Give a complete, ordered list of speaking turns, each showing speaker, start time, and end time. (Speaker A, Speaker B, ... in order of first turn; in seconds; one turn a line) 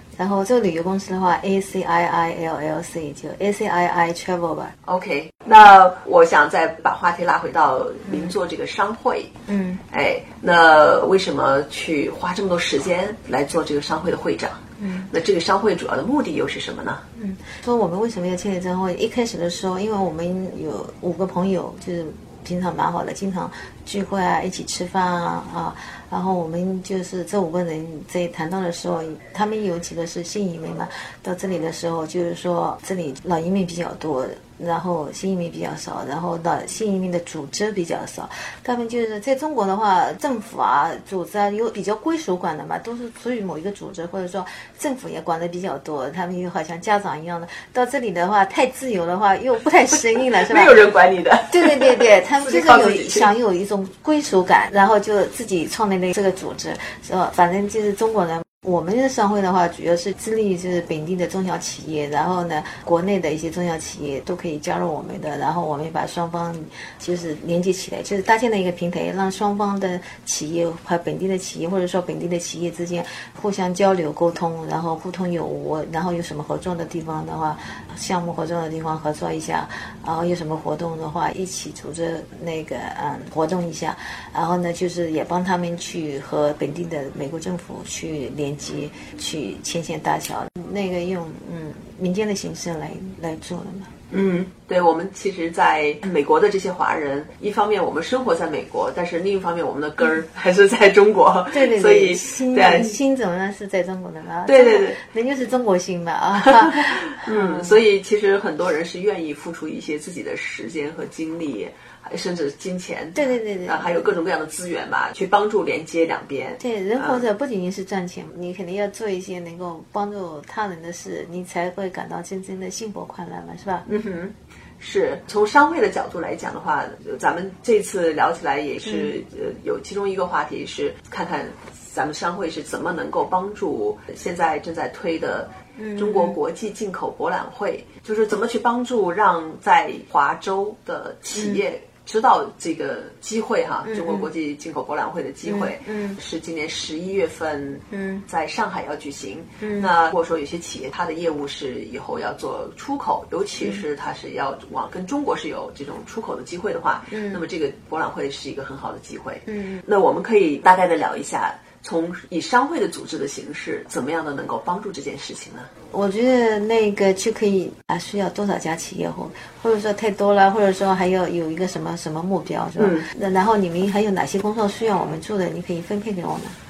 Speaker A: 0.2-4.7
Speaker B: 4.8-9.3
Speaker A: 8.1-8.3
Speaker A: 9.5-9.8
Speaker B: 9.9-17.0
Speaker A: 14.8-15.1
Speaker A: 17.2-50.8
Speaker B: 50.4-53.3
Speaker A: 51.5-93.9
Speaker B: 94.1-103.0
Speaker A: 101.5-107.8
Speaker B: 104.5-105.0
Speaker B: 106.5-117.2
Speaker A: 113.2-114.1
Speaker A: 116.6-123.9
Speaker B: 123.9-165.7
Speaker A: 128.8-129.1
Speaker A: 135.8-136.4
Speaker A: 141.3-141.6
Speaker A: 143.8-144.3
Speaker A: 145.4-146.2
Speaker A: 147.9-148.2
Speaker A: 149.6-149.9
Speaker A: 157.1-157.4
Speaker A: 159.5-159.8
Speaker A: 165.9-176.6
Speaker B: 172.8-173.1